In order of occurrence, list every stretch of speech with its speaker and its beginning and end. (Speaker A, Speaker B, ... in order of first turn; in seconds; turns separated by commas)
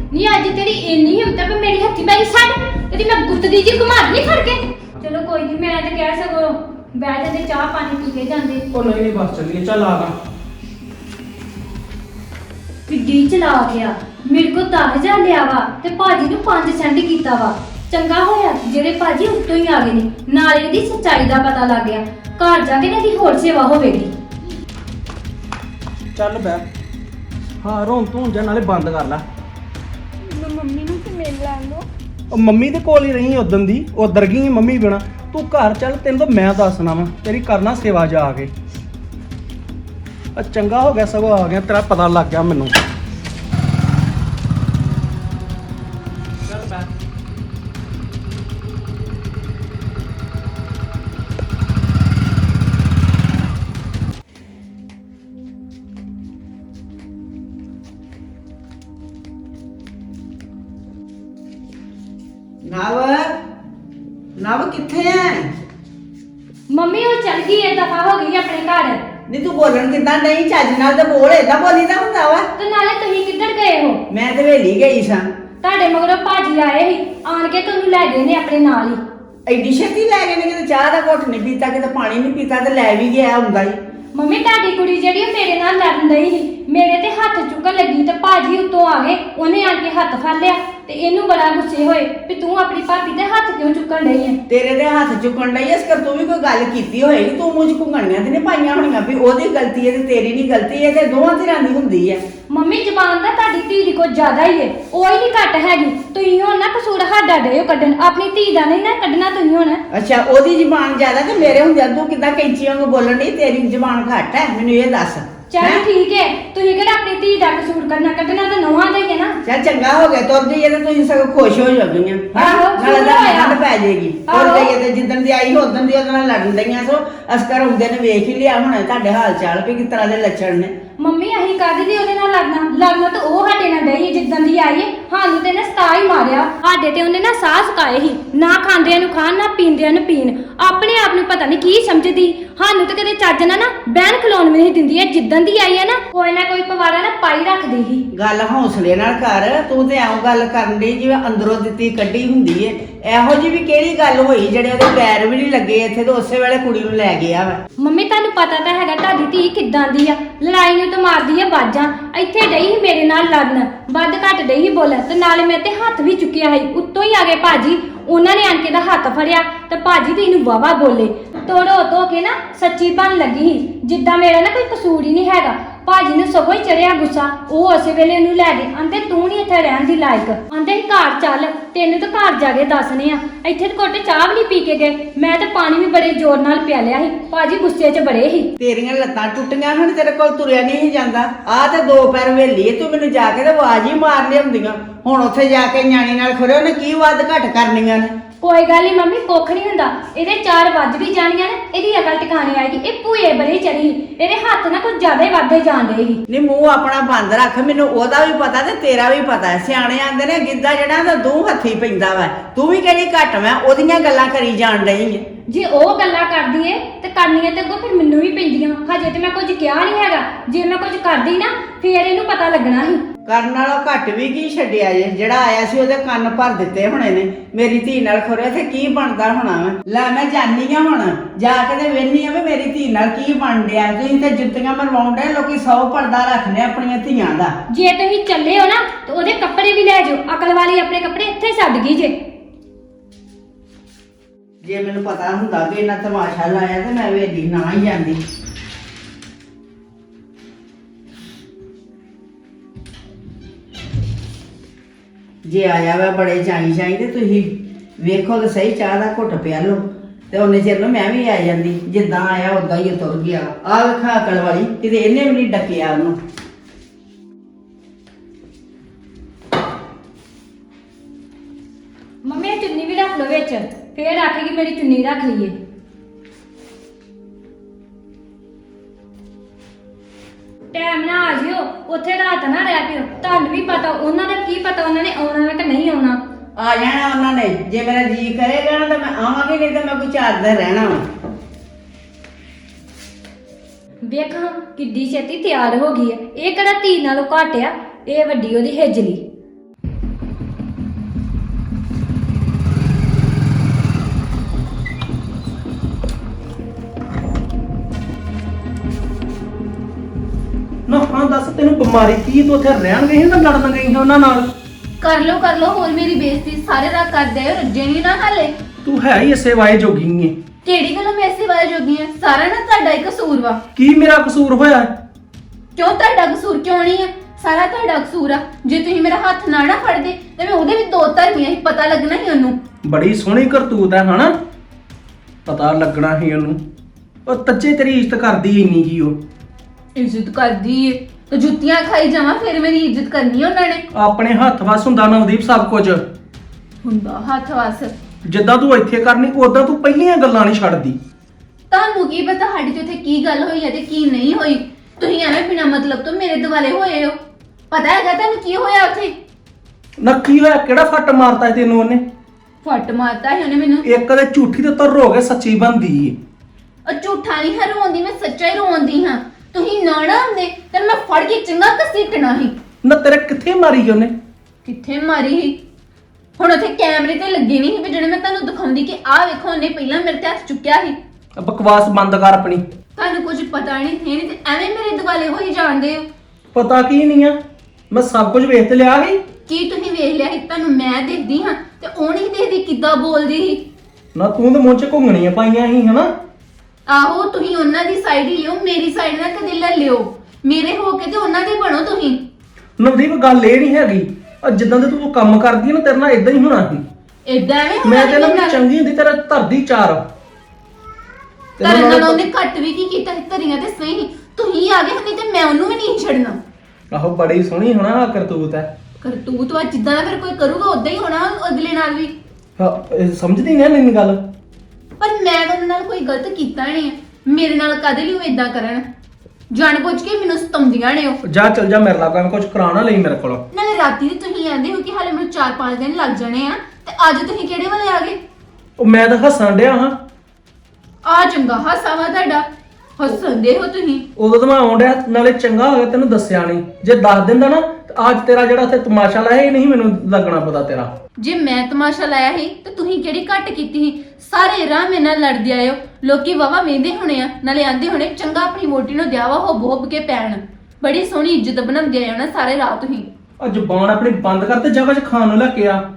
Speaker A: 0.1-8.6, Speaker B: 8.7-10.1, Speaker A: 12.9-24.1, Speaker B: 26.1-26.6, Speaker B: 27.6-29.2, Speaker C: 30.2-31.9, Speaker B: 32.3-38.5, Speaker B: 40.4-42.7, Speaker B: 46.5-46.9, Speaker D: 62.6-63.3, Speaker D: 64.4-65.5, Speaker A: 66.7-69.0, Speaker D: 69.3-72.5, Speaker A: 72.6-74.0, Speaker D: 74.1-75.2, Speaker A: 75.6-79.0, Speaker D: 79.5-83.8, Speaker A: 84.1-94.4, Speaker D: 94.5-102.2, Speaker A: 102.5-109.8, Speaker D: 109.9-115.8, Speaker A: 115.5-119.3, Speaker D: 119.4-130.7, Speaker A: 122.3-123.6, Speaker A: 124.3-124.7, Speaker A: 131.0-148.1, Speaker D: 148.1-157.6, Speaker A: 157.8-188.5, Speaker D: 188.6-198.1, Speaker A: 198.4-206.2, Speaker D: 206.3-215.2, Speaker A: 215.5-223.0, Speaker D: 223.2-237.5, Speaker A: 237.7-242.1, Speaker D: 244.6-248.2, Speaker D: 255.4-266.1, Speaker A: 272.2-275.5, Speaker A: 280.7-286.2, Speaker D: 286.6-291.0, Speaker A: 294.1-299.2, Speaker B: 310.9-314.5, Speaker C: 315.0-318.5, Speaker B: 318.8-320.3, Speaker C: 320.6-323.6, Speaker B: 323.8-324.9, Speaker C: 325.8-332.6, Speaker B: 332.8-334.3, Speaker B: 335.4-336.6, Speaker B: 337.2-339.2, Speaker C: 339.9-343.8, Speaker B: 343.9-346.0, Speaker C: 346.8-347.9, Speaker B: 348.2-351.0, Speaker C: 351.7-357.2, Speaker C: 357.7-359.1, Speaker B: 360.0-362.0, Speaker C: 362.6-363.8, Speaker B: 363.8-366.2, Speaker C: 366.9-372.5, Speaker B: 372.8-374.1, Speaker C: 374.6-375.6, Speaker C: 376.4-381.0, Speaker B: 381.4-382.6, Speaker C: 383.0-386.1, Speaker B: 386.5-387.4, Speaker B: 387.9-389.2, Speaker C: 389.5-393.7, Speaker B: 394.1-396.1, Speaker C: 396.9-402.2, Speaker B: 402.8-406.8, Speaker C: 407.3-408.6, Speaker B: 407.8-410.0, Speaker B: 411.6-412.2, Speaker C: 411.6-416.4, Speaker B: 416.9-418.7, Speaker C: 419.0-422.1, Speaker B: 422.6-424.3, Speaker C: 425.0-428.8, Speaker C: 429.5-431.2, Speaker B: 431.2-433.4, Speaker C: 433.5-438.2, Speaker B: 438.8-439.9, Speaker C: 441.0-442.4, Speaker C: 443.0-444.0, Speaker B: 444.2-450.9, Speaker C: 451.2-463.1, Speaker B: 463.4-465.8